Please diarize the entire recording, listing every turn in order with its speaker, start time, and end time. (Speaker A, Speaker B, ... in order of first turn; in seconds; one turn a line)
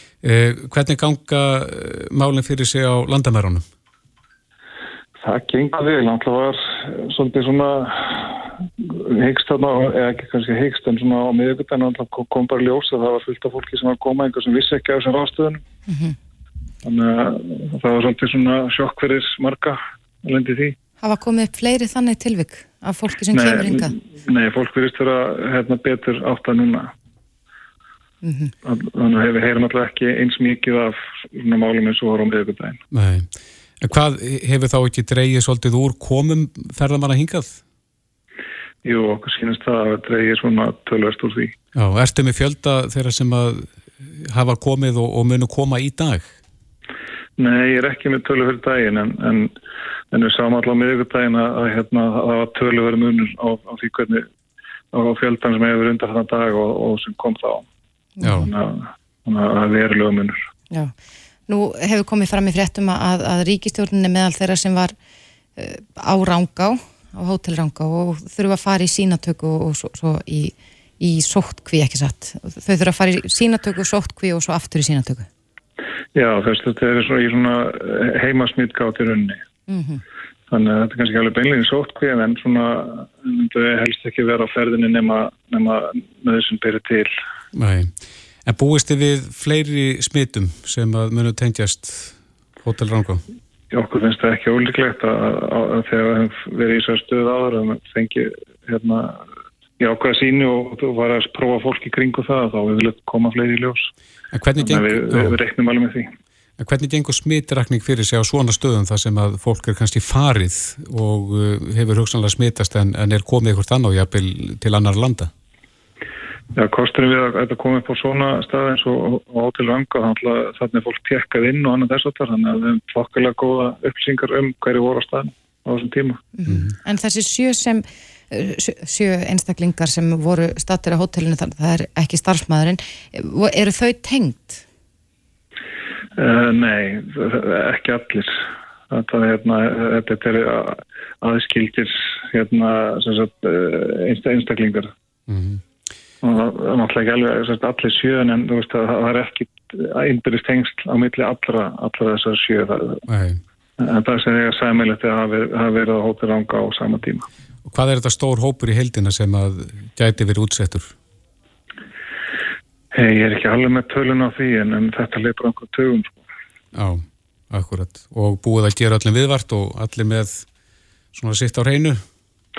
Speaker A: 0.2-3.6
Speaker B: 5.2-15.6
Speaker C: 15.9-16.1
Speaker B: 16.8-20.8
Speaker C: 21.0-23.9
Speaker B: 23.3-26.9
Speaker C: 28.2-28.5
Speaker B: 28.6-32.8
Speaker A: 32.9-33.3
Speaker A: 33.8-37.6
Speaker B: 38.8-41.5
Speaker A: 41.7-46.3
Speaker B: 47.4-49.5
Speaker B: 50.1-54.3
Speaker B: 54.9-57.6
Speaker C: 58.2-58.5
Speaker A: 58.2-58.5
Speaker B: 58.3-60.4
Speaker C: 61.5-64.9
Speaker C: 65.6-75.3
Speaker B: 76.1-79.4
Speaker C: 79.7-80.0
Speaker B: 80.5-87.1
Speaker A: 87.5-87.9
Speaker A: 88.4-93.2
Speaker B: 93.7-99.2
Speaker B: 99.8-103.9
Speaker A: 104.3-105.4
Speaker B: 104.6-106.1
Speaker A: 106.6-115.3
Speaker B: 116.5-126.2
Speaker C: 126.4-134.6
Speaker B: 136.2-138.3
Speaker B: 138.9-144.9
Speaker A: 145.3-145.6
Speaker B: 146.2-153.0
Speaker A: 153.1-153.4
Speaker B: 153.8-157.2
Speaker A: 157.7-160.9
Speaker B: 162.9-166.2
Speaker A: 166.7-170.4
Speaker A: 171.1-172.0